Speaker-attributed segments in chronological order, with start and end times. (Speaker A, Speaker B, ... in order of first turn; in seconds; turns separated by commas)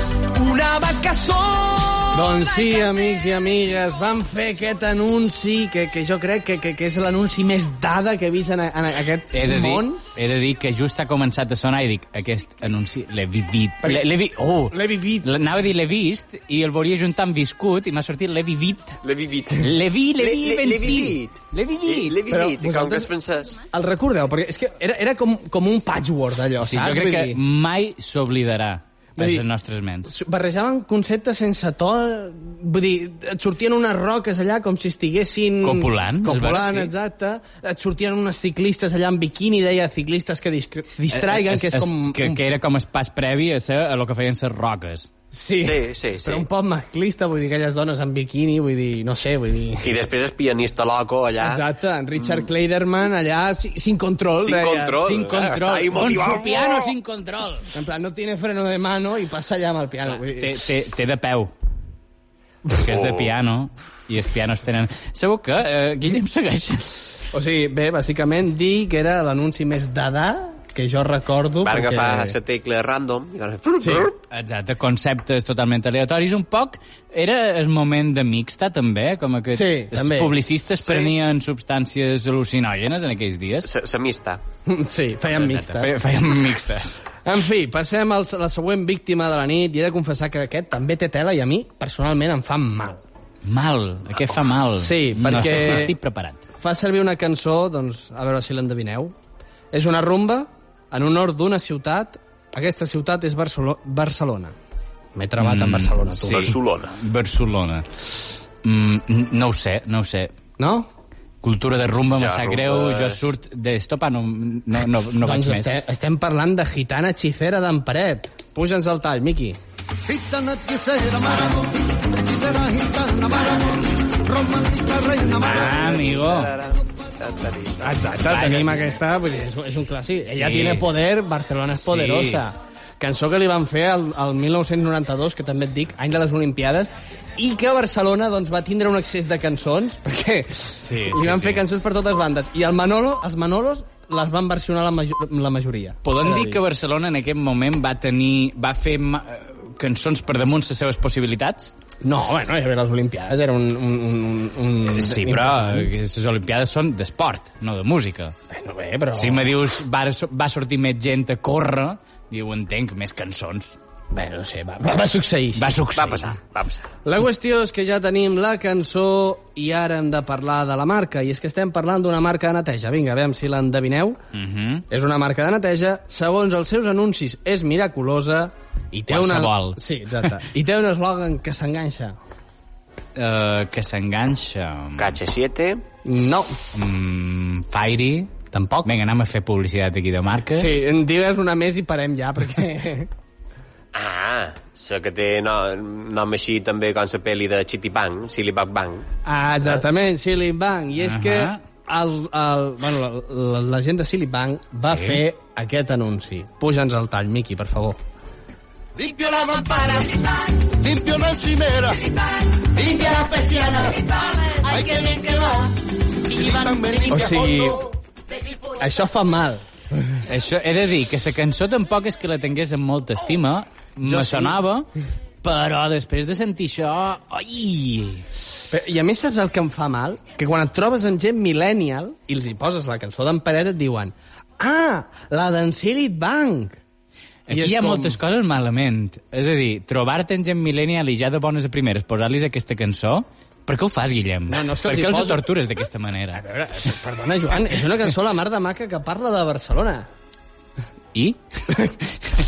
Speaker A: 0.3-2.4, Speaker B: 2.1-10.0, Speaker C: 9.3-19.0, Speaker B: 13.8-14.1, Speaker B: 14.7-15.3, Speaker D: 19.0-23.6, Speaker C: 19.6-22.2, Speaker B: 22.3-27.4, Speaker C: 26.6-30.1, Speaker B: 29.2-29.5, Speaker B: 30.1-42.4, Speaker C: 35.6-36.9, Speaker C: 41.1-45.1, Speaker B: 45.3-50.0, Speaker D: 45.6-46.5, Speaker D: 49.8-51.6, Speaker B: 51.4-55.0, Speaker D: 52.2-52.5, Speaker D: 54.4-56.9, Speaker C: 55.0-57.7, Speaker B: 57.7-60.7, Speaker C: 60.1-61.5, Speaker C: 62.7-67.0, Speaker D: 62.9-63.3, Speaker B: 67.3-72.4, Speaker D: 71.6-74.2, Speaker B: 73.8-74.1, Speaker C: 74.3-83.7, Speaker B: 79.5-80.5, Speaker D: 83.6-84.4, Speaker B: 84.7-86.3, Speaker C: 85.3-87.0, Speaker B: 87.2-93.0, Speaker C: 93.4-96.4, Speaker B: 94.8-96.0, Speaker B: 96.6-99.1, Speaker B: 99.7-104.5, Speaker B: 105.2-106.6, Speaker C: 105.4-107.9, Speaker D: 106.2-107.0, Speaker C: 108.6-110.3, Speaker B: 110.6-110.9, Speaker C: 111.4-115.8, Speaker D: 112.2-113.3, Speaker B: 115.2-119.6, Speaker E: 120.1-125.8, Speaker C: 125.4-126.5, Speaker D: 125.4-128.0, Speaker B: 127.8-146.6, Speaker C: 128.3-128.8, Speaker C: 130.3-130.9, Speaker C: 131.8-132.5, Speaker C: 140.8-141.6, Speaker C: 146.0-151.7, Speaker B: 152.0-155.9, Speaker C: 154.9-158.3, Speaker B: 158.5-159.6, Speaker C: 159.2-163.8, Speaker B: 164.1-165.8, Speaker C: 165.6-166.4, Speaker D: 166.0-166.8, Speaker B: 167.1-174.2, Speaker C: 174.3-174.8, Speaker B: 174.9-182.2, Speaker C: 179.1-179.8, Speaker C: 183.2-185.2, Speaker D: 185.0-185.8, Speaker B: 186.1-186.6, Speaker C: 186.7-188.3, Speaker B: 188.5-188.9, Speaker C: 188.8-190.8, Speaker B: 190.6-193.1, Speaker D: 193.9-199.1, Speaker B: 199.2-208.0, Speaker C: 201.0-201.6, Speaker C: 204.8-205.2, Speaker E: 209.0-217.9, Speaker B: 217.1-217.8, Speaker B: 218.7-219.6, Speaker C: 220.3-224.9, Speaker B: 224.0-224.6, Speaker C: 225.4-228.2, Speaker B: 228.7-236.8, Speaker C: 237.5-246.4, Speaker B: 237.5-238.2, Speaker B: 244.5-245.5, Speaker B: 246.3-250.1, Speaker C: 251.1-251.4, Speaker B: 251.7-251.9